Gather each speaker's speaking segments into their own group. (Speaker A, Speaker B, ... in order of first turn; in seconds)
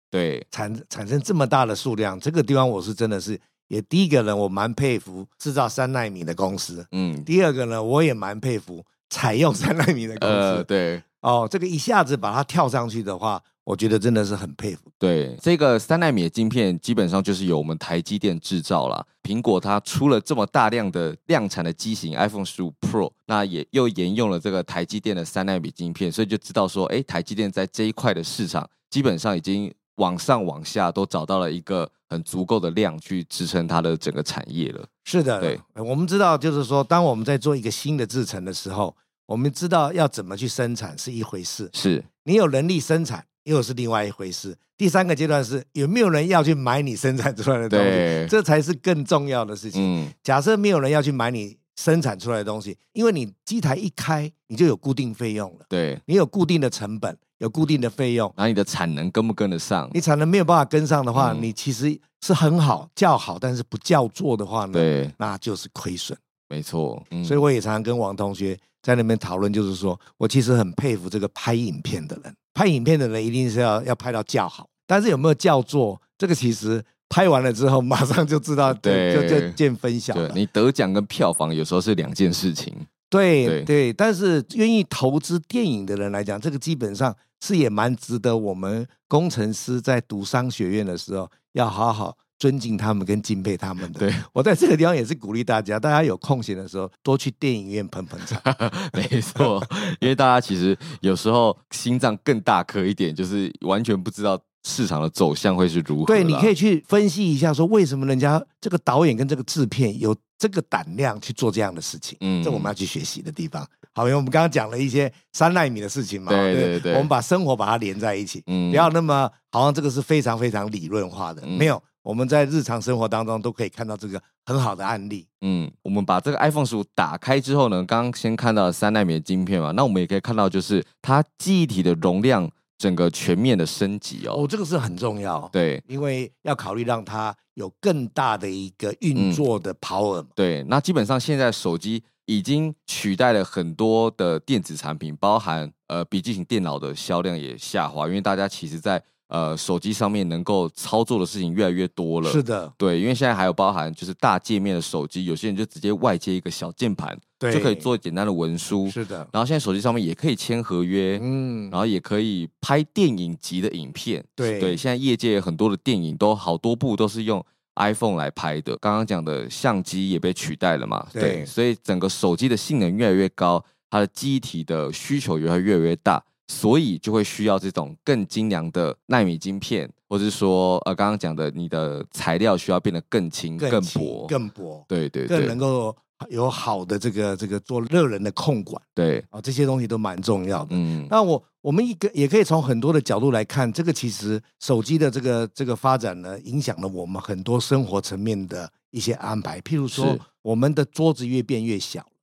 Speaker A: 0.1-0.5, 6.9-7.3, 10.2-11.0, 15.0-34.9, 41.7-42.1, 47.7-48.3, 49.7-50.1, 55.7-56.0, 58.4-60.0, 61.1-61.5, 64.7-65.1, 66.5-67.4, 78.7-79.6, 80.1-82.9, 83.4-83.7, 93.9-94.2, 98.4-106.5, 112.2-112.7, 116.3-117.1, 118.5-118.9, 121.4-121.7, 125.4-134.4, 135.5-135.8, 139.1-139.4, 140.4-184.3, 184.9-185.6, 188.9-189.2, 190.7-191.1, 199.9-200.2
Speaker B: 0.5-10.7, 11.2-14.9, 35.0-41.7, 42.2-58.3, 59.9-66.2, 67.2-80.4, 83.1-98.4, 106.0-125.3, 134.3-140.3, 152.2-152.7, 157.4-157.9, 158.8-159.3, 161.2-161.8, 164.4-164.8, 171.1-171.5, 183.6-202.1